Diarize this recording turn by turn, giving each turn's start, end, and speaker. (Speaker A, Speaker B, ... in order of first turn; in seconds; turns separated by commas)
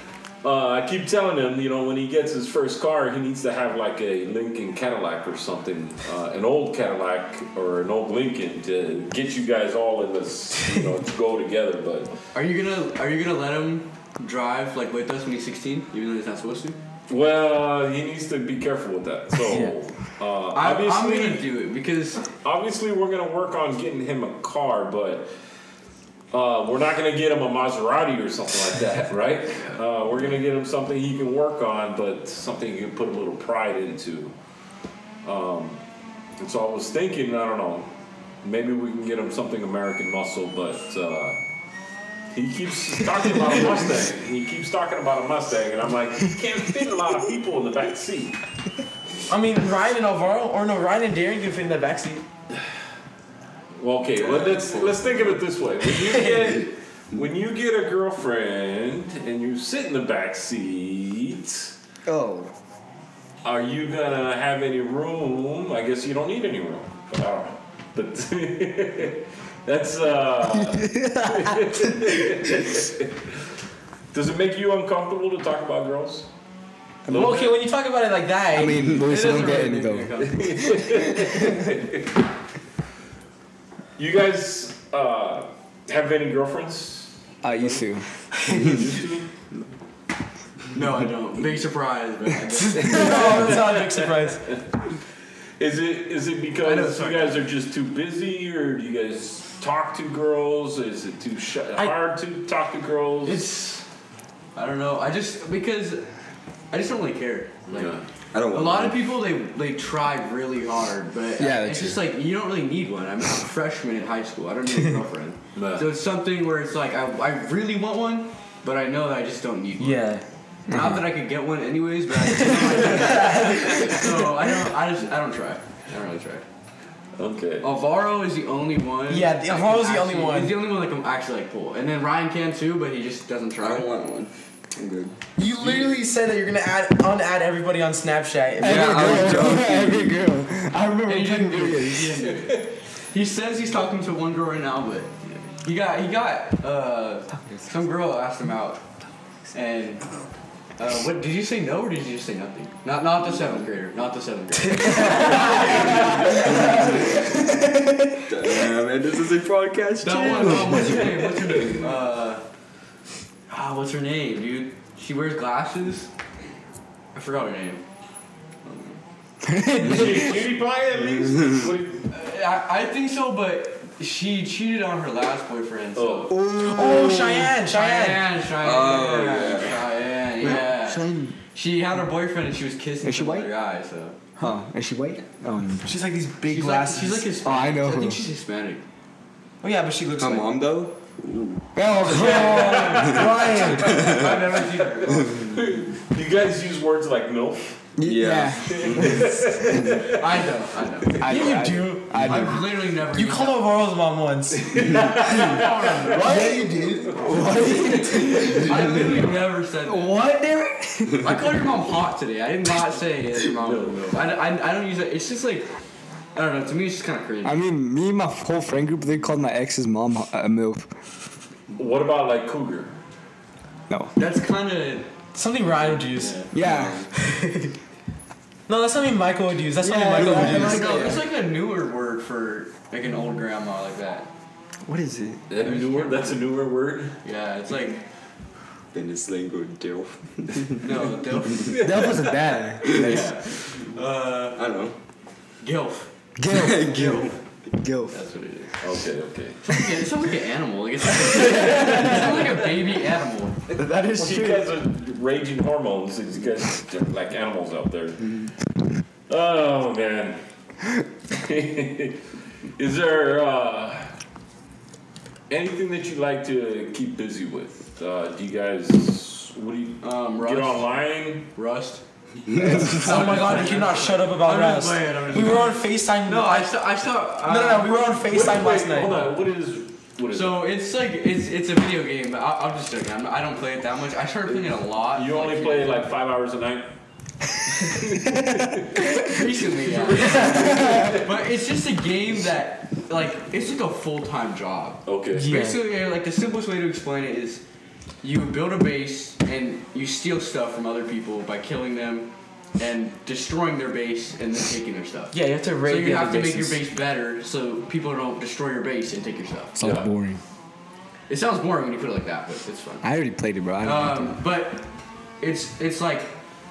Speaker A: 0.4-12.1, Speaker B: 12.3-16.8, Speaker A: 17.1-21.4, Speaker C: 19.5-19.8, Speaker B: 20.5-22.3, Speaker A: 22.4-25.3, Speaker A: 26.3-34.3, Speaker A: 35.2-35.8, Speaker A: 36.4-37.9, Speaker A: 38.4-41.4, Speaker A: 42.3-48.4, Speaker C: 49.3-52.2, Speaker A: 53.8-61.7, Speaker B: 54.3-55.3, Speaker D: 62.1-62.5, Speaker A: 63.4-73.2, Speaker D: 70.6-72.1, Speaker A: 74.1-76.3, Speaker A: 77.1-77.6, Speaker C: 77.1-79.0, Speaker D: 78.5-80.1, Speaker B: 78.8-81.0, Speaker A: 80.2-82.2, Speaker A: 84.0-87.8, Speaker D: 87.4-88.1, Speaker C: 88.3-88.8, Speaker A: 88.5-89.3, Speaker B: 90.7-93.6, Speaker C: 92.8-94.5, Speaker A: 92.8-94.6, Speaker A: 95.6-103.5, Speaker B: 96.6-97.4, Speaker B: 103.2-103.8, Speaker B: 104.5-106.0, Speaker B: 106.7-108.0, Speaker A: 107.7-108.0, Speaker E: 108.3-109.0, Speaker B: 108.5-120.1, Speaker D: 111.4-112.1, Speaker A: 115.6-115.9, Speaker C: 119.8-120.2, Speaker D: 120.7-121.1, Speaker B: 120.7-126.5, Speaker C: 122.3-124.0, Speaker A: 127.2-127.7, Speaker B: 127.6-133.9, Speaker C: 129.1-130.6, Speaker E: 133.6-135.2, Speaker C: 135.4-139.7, Speaker B: 135.6-135.9, Speaker D: 138.6-142.2, Speaker E: 138.6-140.1, Speaker B: 141.1-148.8, Speaker B: 149.5-150.1, Speaker B: 150.8-157.1, Speaker C: 154.7-155.7, Speaker A: 155.7-156.2, Speaker E: 156.3-157.2, Speaker D: 157.5-158.0, Speaker E: 158.2-161.0, Speaker B: 160.0-162.4, Speaker D: 160.4-160.9, Speaker A: 160.8-161.8, Speaker B: 163.5-166.1, Speaker B: 167.1-167.8, Speaker B: 168.7-168.9, Speaker D: 169.4-170.4, Speaker A: 169.8-172.1, Speaker B: 172.1-176.3, Speaker A: 175.9-176.4, Speaker D: 176.3-177.6, Speaker C: 176.6-178.3, Speaker B: 177.7-184.2, Speaker E: 178.6-179.9, Speaker D: 180.4-181.4, Speaker D: 183.0-183.5, Speaker D: 184.4-185.9, Speaker C: 185.8-187.3, Speaker B: 186.5-188.8, Speaker D: 187.4-188.2, Speaker C: 189.6-190.6, Speaker E: 190.2-191.6, Speaker D: 191.8-193.3, Speaker C: 192.1-194.1, Speaker A: 192.1-197.8, Speaker B: 193.7-195.4, Speaker E: 194.0-194.4, Speaker D: 198.0-200.0, Speaker E: 198.0-199.3, Speaker A: 198.6-200.4, Speaker B: 200.2-201.5, Speaker D: 201.2-202.7, Speaker C: 201.2-202.6, Speaker B: 202.1-203.8, Speaker C: 203.1-206.4, Speaker A: 204.6-208.7, Speaker D: 205.2-209.3, Speaker E: 206.3-207.1, Speaker B: 208.5-210.2, Speaker D: 209.8-211.4, Speaker B: 211.2-215.7, Speaker A: 213.6-214.1, Speaker B: 216.3-217.6, Speaker D: 217.4-220.9, Speaker A: 221.7-222.9, Speaker D: 223.9-224.2, Speaker B: 224.2-225.1, Speaker C: 225.3-226.5, Speaker B: 226.1-226.5, Speaker D: 226.5-227.0, Speaker E: 226.6-227.1, Speaker C: 227.1-227.7, Speaker C: 228.7-231.1, Speaker D: 229.8-231.3, Speaker B: 230.2-234.3, Speaker D: 234.8-235.4, Speaker A: 235.5-237.2, Speaker B: 235.6-236.4, Speaker B: 237.2-238.0, Speaker E: 238.9-241.1, Speaker B: 240.8-242.2, Speaker D: 241.7-243.3, Speaker A: 241.8-242.1, Speaker B: 242.8-244.6, Speaker E: 244.6-244.9, Speaker B: 245.6-246.1, Speaker D: 246.4-248.2, Speaker E: 246.5-247.3, Speaker B: 246.7-247.3, Speaker B: 248.1-248.8, Speaker A: 248.8-249.8, Speaker B: 249.6-253.6, Speaker A: 251.8-252.4, Speaker D: 253.8-254.7, Speaker A: 254.1-258.5, Speaker A: 259.3-260.4, Speaker A: 261.3-262.2, Speaker A: 262.8-264.2, Speaker A: 265.5-271.5, Speaker B: 270.0-270.9, Speaker B: 271.6-278.1, Speaker A: 272.6-273.6, Speaker C: 272.9-276.8, Speaker C: 277.4-279.3, Speaker A: 278.2-280.7, Speaker B: 280.3-286.0, Speaker A: 285.1-286.9, Speaker A: 287.8-291.3, Speaker B: 289.2-297.6, Speaker C: 290.1-290.8, Speaker D: 290.8-291.1, Speaker A: 295.1-295.6, Speaker C: 295.3-295.8, Speaker B: 298.2-309.9, Speaker C: 305.3-306.8, Speaker D: 309.8-310.4, Speaker A: 309.8-310.1, Speaker B: 311.3-313.1, Speaker D: 313.0-314.4, Speaker B: 313.8-314.9, Speaker B: 315.4-316.3